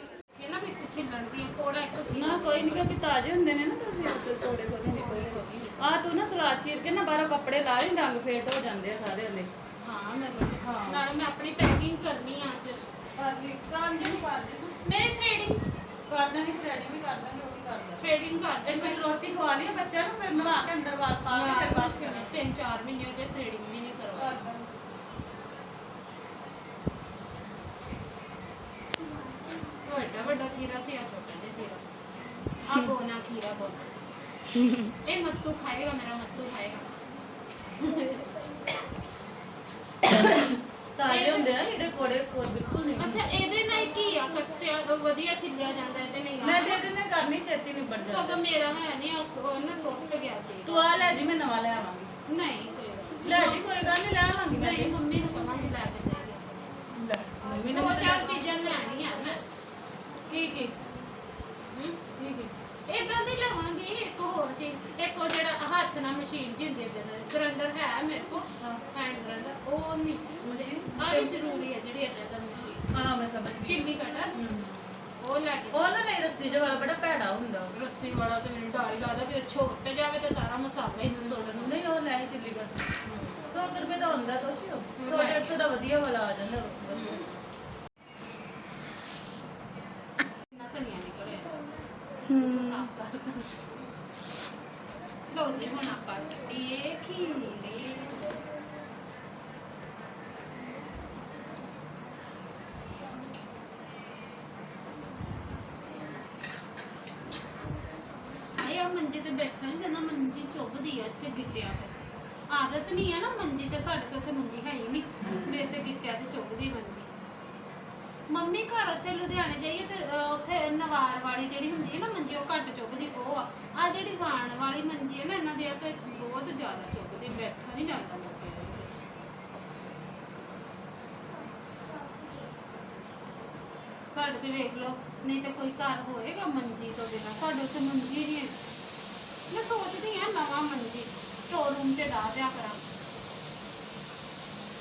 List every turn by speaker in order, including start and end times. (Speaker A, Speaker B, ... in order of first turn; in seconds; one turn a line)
Speaker A: 0.3-2.9
Speaker B: 2.1-9.5
Speaker A: 4.8-6.0
Speaker A: 9.8-12.9
Speaker B: 10.6-11.0
Speaker B: 13.2-14.8
Speaker A: 14.8-15.6
Speaker B: 16.1-18.1
Speaker A: 18.0-19.1
Speaker B: 18.6-22.4
Speaker A: 20.3-20.7
Speaker A: 21.3-24.4
Speaker B: 24.1-24.7
Speaker A: 29.8-31.8
Speaker A: 32.6-33.9
Speaker A: 34.8-36.9
Speaker A: 37.8-38.4
Speaker B: 40.1-43.3
Speaker A: 41.0-41.5
Speaker A: 43.0-46.9
Speaker B: 46.4-48.4
Speaker A: 48.0-51.2
Speaker B: 50.6-52.1
Speaker A: 52.3-53.8
Speaker B: 53.2-55.0
Speaker A: 54.5-56.8
Speaker B: 56.9-58.6
Speaker A: 57.6-59.4
Speaker B: 60.2-60.8
Speaker A: 61.7-62.0
Speaker B: 62.1-62.5
Speaker A: 62.9-72.9
Speaker B: 68.6-68.9
Speaker B: 70.4-71.4
Speaker B: 72.9-74.8
Speaker A: 73.6-74.4
Speaker A: 75.2-76.0
Speaker B: 75.7-77.7
Speaker A: 77.7-81.8
Speaker B: 81.1-82.8
Speaker A: 83.0-83.5
Speaker B: 83.4-87.2
Speaker A: 85.0-85.6
Speaker A: 86.9-87.4
Speaker A: 90.5-91.7
Speaker A: 92.2-93.6
Speaker A: 95.3-98.4
Speaker A: 108.4-111.9
Speaker A: 112.5-117.1
Speaker A: 118.3-128.9
Speaker A: 134.1-138.6
Speaker A: 139.5-142.9